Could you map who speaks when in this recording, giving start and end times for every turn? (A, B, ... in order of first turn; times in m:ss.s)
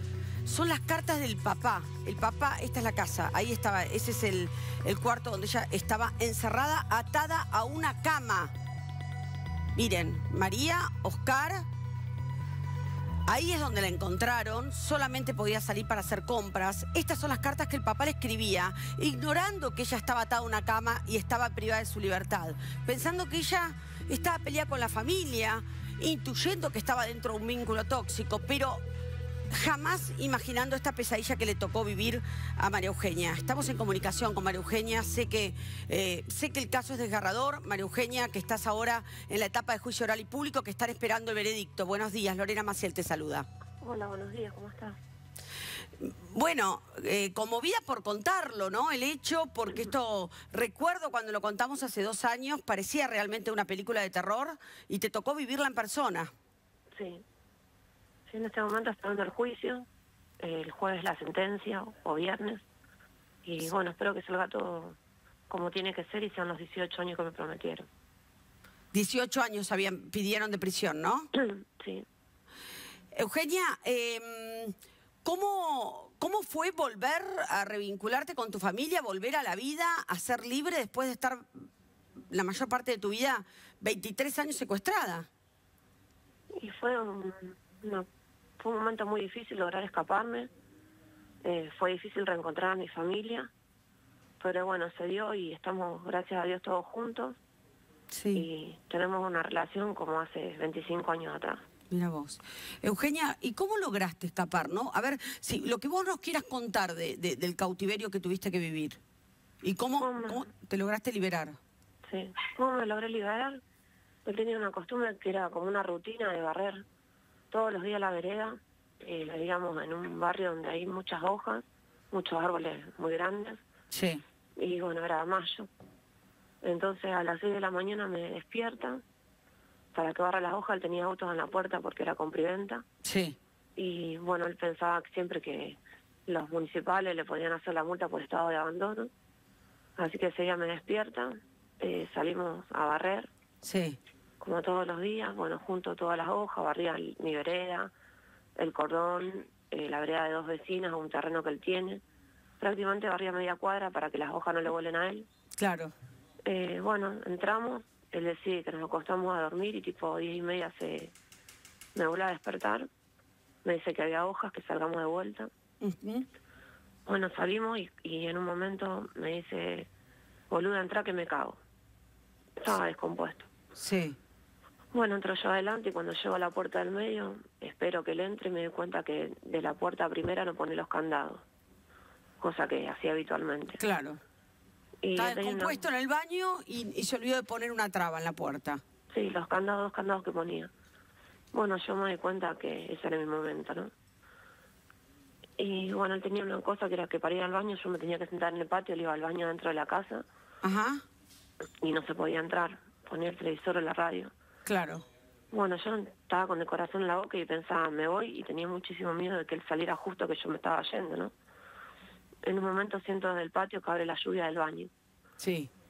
0:00.4-0:08.5 A
0:09.7-0:11.6 A
0:13.3-0:28.8 A
0:29.5-0:43.5 A
0:43.8-0:45.0 B
0:46.0-0:56.3 A
0:56.9-0:57.2 B
0:58.3-0:59.9 B
1:00.4-1:02.6 B
1:03.4-1:05.0 B
1:05.5-1:07.9 B
1:08.9-1:11.3 A
1:11.3-1:12.0 B
1:13.1-1:21.6 A
1:22.3-1:25.3 A
1:26.6-1:28.0 B
1:28.6-1:30.5 B
1:31.4-1:33.5 B
1:34.4-1:37.4 B
1:38.1-1:38.4 A
1:38.3-1:41.6 B
1:41.9-1:49.0 A
1:49.6-1:51.6 A
1:50.0-1:50.4 B
1:52.1-1:53.6 B
1:54.2-1:56.8 B
1:57.5-2:03.6 B
2:03.9-2:04.2 A
2:04.6-2:05.7 B
2:06.6-2:09.0 B
2:09.9-2:12.8 B
2:13.0-2:13.4 A
2:13.8-2:19.1 B
2:20.0-2:23.3 B
2:23.6-2:24.0 A
2:24.4-2:27.9 B
2:28.6-2:32.0 B
2:32.6-2:35.3 B
2:35.6-2:35.9 A
2:36.4-2:41.1 B
2:41.9-2:42.9 B
2:43.6-2:45.5 B
2:45.8-2:46.2 A
2:47.0-2:49.9 B
2:50.5-2:51.6 B
2:52.6-2:53.5 B
2:53.8-2:54.2 A
2:54.9-3:01.4 B
3:02.4-3:03.8 B
3:03.8-3:04.2 A
3:05.0-3:05.8 B
3:05.1-3:08.8 A
3:09.1-3:10.7 B
3:11.5-3:13.9 B
3:15.6-3:20.2 B
3:20.6-3:21.0 A
3:21.8-3:24.3 B
3:24.6-3:25.0 A
3:25.5-3:31.3 B
3:32.4-3:34.9 B
3:35.4-3:35.7 A